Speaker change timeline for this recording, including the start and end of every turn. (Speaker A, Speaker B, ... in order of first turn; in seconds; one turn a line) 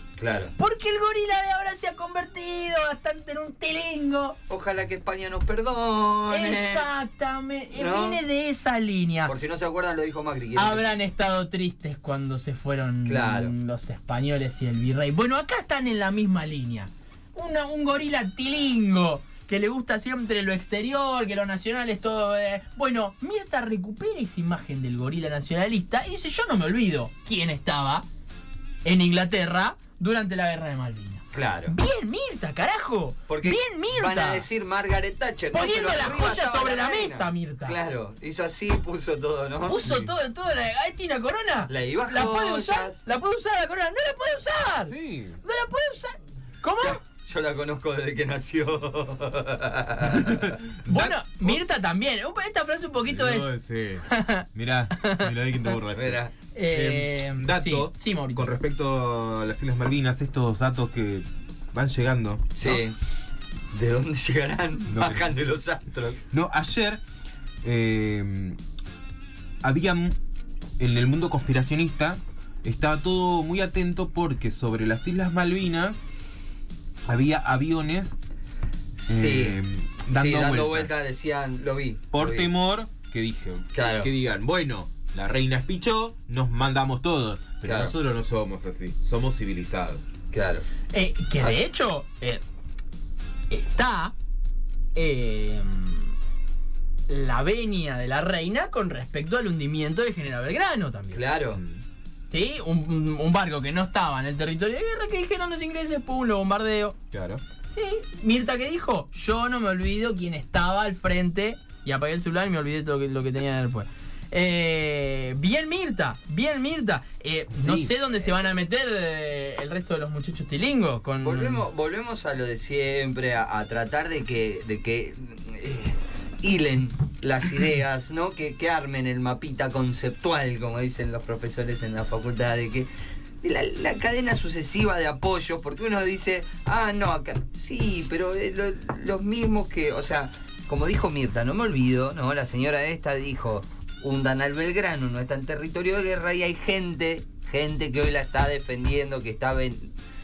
Speaker A: 0.2-0.5
Speaker B: 0.6-4.4
Speaker A: 4.5-6.9
Speaker B: 6.3-9.3
Speaker A: 7.8-8.2
Speaker A: 9.3-10.9
Speaker B: 10.6-28.1
Speaker A: 13.1-13.5
Speaker B: 28.8-34.5
Speaker A: 31.3-31.7
Speaker A: 33.3-39.8
Speaker B: 35.5-37.8
Speaker B: 39.6-47.0
Speaker C: 39.8-40.1
Speaker A: 41.7-43.0
Speaker C: 44.8-45.4
Speaker A: 46.8-50.5
Speaker C: 50.1-51.6
Speaker B: 50.9-53.5
Speaker C: 53.1-62.8
Speaker B: 54.1-55.3
Speaker A: 55.9-56.3
Speaker B: 56.5-58.5
Speaker A: 62.6-63.0
Speaker A: 63.7-66.3
Speaker C: 64.9-65.3
Speaker C: 66.3-67.0
Speaker C: 67.6-68.6
Speaker C: 69.6-70.2
Speaker C: 70.8-76.0
Speaker C: 77.1-78.2
Speaker A: 79.0-79.6
Speaker C: 79.1-80.9
Speaker A: 80.1-82.5
Speaker C: 82.1-90.0
Speaker A: 83.7-84.1
Speaker A: 87.6-87.9
Speaker A: 90.3-90.7
Speaker B: 90.9-92.4
Speaker B: 93.5-94.1
Speaker B: 95.0-96.2
Speaker B: 97.1-101.2
Speaker A: 101.1-101.6
Speaker C: 101.5-101.8
Speaker B: 102.3-107.0
Speaker C: 107.1-107.4
Speaker B: 107.7-121.7
Speaker C: 117.5-117.9
Speaker A: 121.2-132.9
Speaker A: 133.4-149.9